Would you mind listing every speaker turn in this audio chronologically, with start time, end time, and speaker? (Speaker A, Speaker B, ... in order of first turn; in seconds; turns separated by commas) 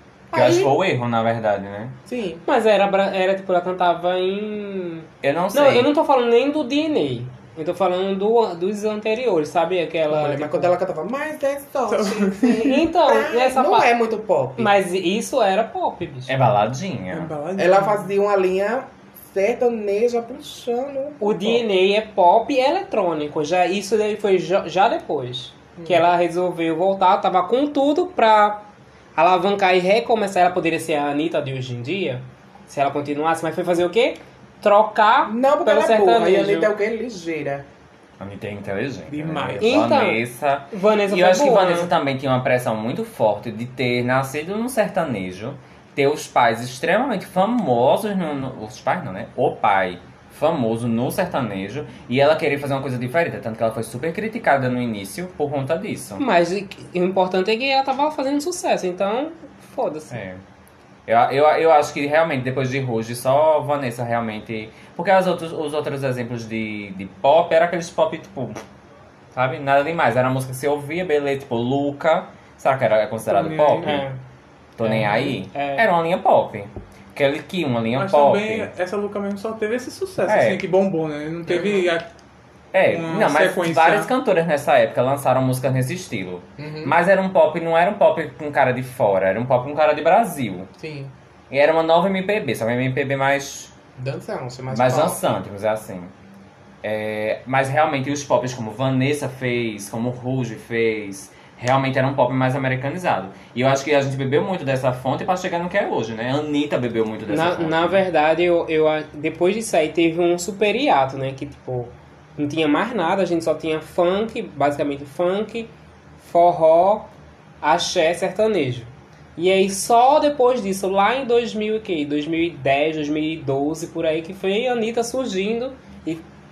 Speaker A: 0.3-0.7, Speaker B: 0.3-1.9, Speaker A: 2.1-2.4, Speaker C: 2.4-10.7, Speaker B: 5.2-5.9, Speaker A: 10.1-14.7, Speaker D: 11.9-12.7, Speaker C: 12.6-13.9, Speaker C: 14.6-16.3, Speaker B: 16.2-17.3, Speaker D: 17.1-18.1, Speaker A: 17.6-21.6, Speaker C: 21.2-28.6, Speaker A: 25.8-26.0, Speaker C: 29.1-36.7, Speaker A: 35.3-37.6, Speaker B: 38.2-56.2, Speaker D: 39.1-39.9, Speaker C: 39.6-41.9, Speaker C: 56.2-60.2, Speaker B: 60.1-60.4, Speaker B: 61.0-68.6, Speaker B: 69.3-74.0, Speaker D: 73.3-74.0, Speaker C: 73.8-74.2, Speaker B: 74.8-78.7, Speaker C: 74.8-75.9, Speaker D: 77.9-82.1, Speaker B: 80.2-80.7, Speaker A: 81.5-81.9, Speaker B: 82.7-90.7, Speaker D: 82.9-84.1, Speaker A: 86.6-87.0, Speaker A: 90.8-91.1, Speaker B: 91.5-93.7, Speaker A: 94.0-95.3, Speaker B: 94.7-96.1, Speaker B: 96.8-108.0, Speaker C: 107.3-117.1, Speaker C: 117.6-126.2